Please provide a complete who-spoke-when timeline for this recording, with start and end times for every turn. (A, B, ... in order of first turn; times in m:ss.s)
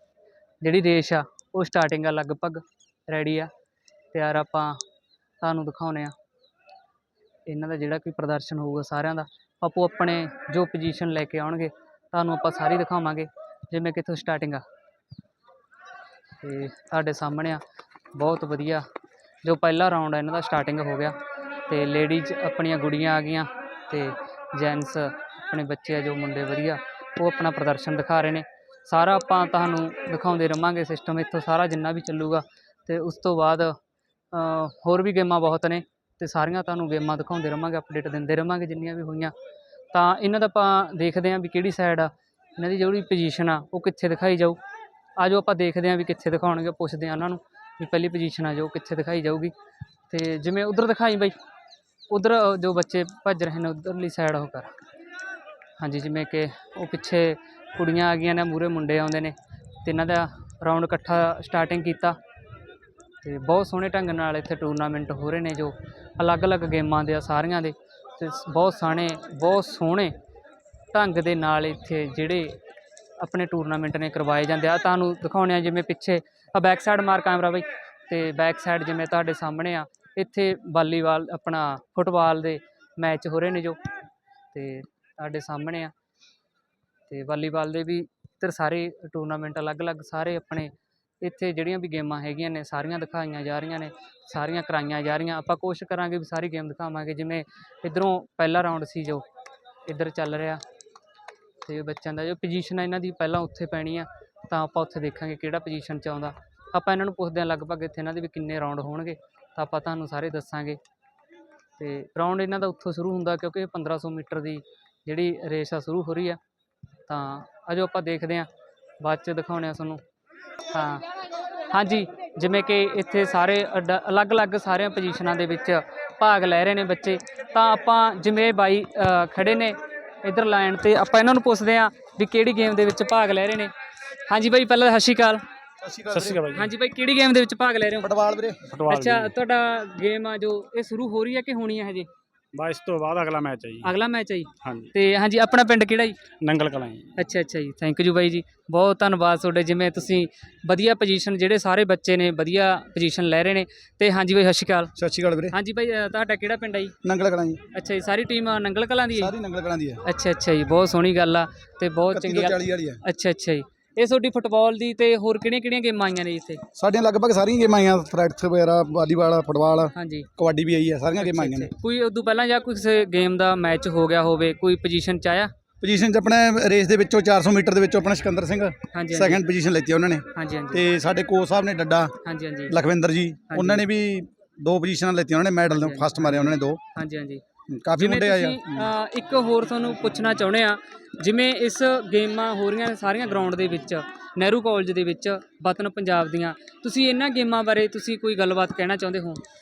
0:00.6-0:03.5 A
0:04.1-0:04.8 A
0:05.4-0:06.1 A
0:07.5-0:14.6 A
0:16.4-0:17.6 A
0:18.1-0:18.8 A
0:19.4-0:21.2 A
0:21.7-0:33.8 A
0:34.3-0:39.3 A
0:39.9-0:44.6 A
0:45.2-0:49.5 A
0:50.1-0:51.3 A
0:52.1-0:54.7 A
0:55.8-1:02.2 A
1:03.2-1:10.1 A
1:10.9-1:12.5 A
1:13.2-1:23.8 A
1:24.5-1:25.9 A
1:27.1-1:39.2 A
1:39.9-1:40.6 A
1:41.6-1:50.8 A
1:51.8-1:56.4 A
1:57.1-1:58.5 A
1:59.0-2:00.0 A
2:00.7-2:01.0 A
2:01.7-2:13.7 A
2:14.3-2:15.4 A
2:15.8-2:16.4 B
2:16.1-2:16.7 C
2:16.5-2:18.1 A
2:18.0-2:18.6 B
2:18.7-2:19.3 C
2:18.9-2:22.1 A
2:22.5-2:23.9 C
2:23.8-2:26.2 A
2:24.6-2:24.9 C
2:26.4-2:27.1 C
2:27.2-2:34.9 A
2:35.0-2:35.5 B
2:35.5-2:36.9 A
2:37.0-2:37.6 B
2:37.7-2:39.3 A
2:39.2-2:40.0 B
2:40.0-2:46.6 A
2:42.1-2:43.0 B
2:46.8-2:51.7 B
2:49.9-2:50.3 A
2:51.2-2:55.5 A
2:55.8-3:02.1 B
2:58.9-2:59.4 A
3:00.3-3:00.8 A
3:02.2-3:02.8 A
3:02.7-3:06.8 B
3:03.5-3:03.8 A
3:05.7-3:07.4 A
3:07.7-3:08.9 B
3:08.0-3:19.4 A